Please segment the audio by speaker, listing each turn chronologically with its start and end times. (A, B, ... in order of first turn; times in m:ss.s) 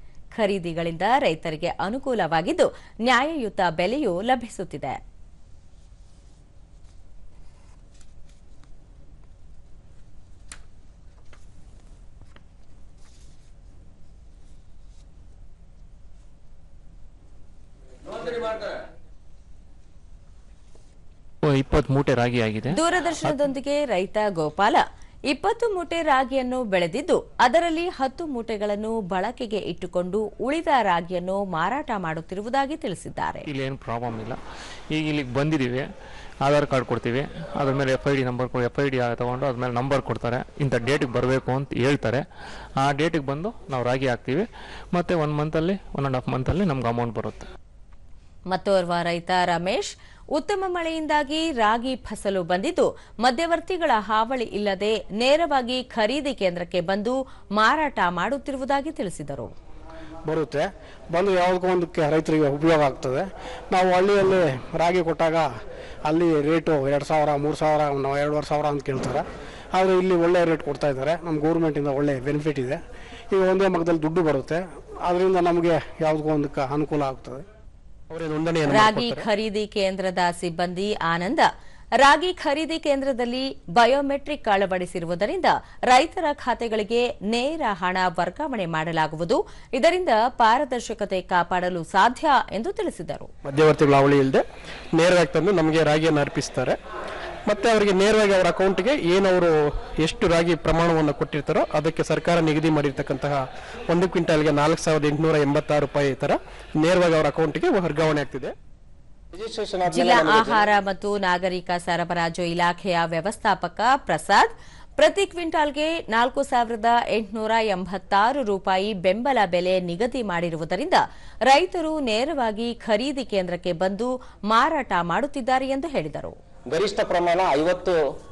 0:00.3-0:05.0 A
0:21.4-0:23.4 B
0:22.7-0:33.5 A
0:33.5-0:34.4 B
0:34.9-0:35.8 B
0:36.4-0:42.2 B
0:42.8-0:47.5 B
0:48.5-0:59.5 A
1:00.3-1:05.5 C
1:06.0-1:12.8 C
1:13.3-1:17.4 C
1:18.1-1:19.3 D
1:18.7-1:33.3 A
1:33.4-1:34.4 D
1:35.0-1:36.8 D
1:37.5-1:48.5 D
1:49.3-1:50.6 E
1:49.9-2:06.4 A
2:06.7-2:08.0 E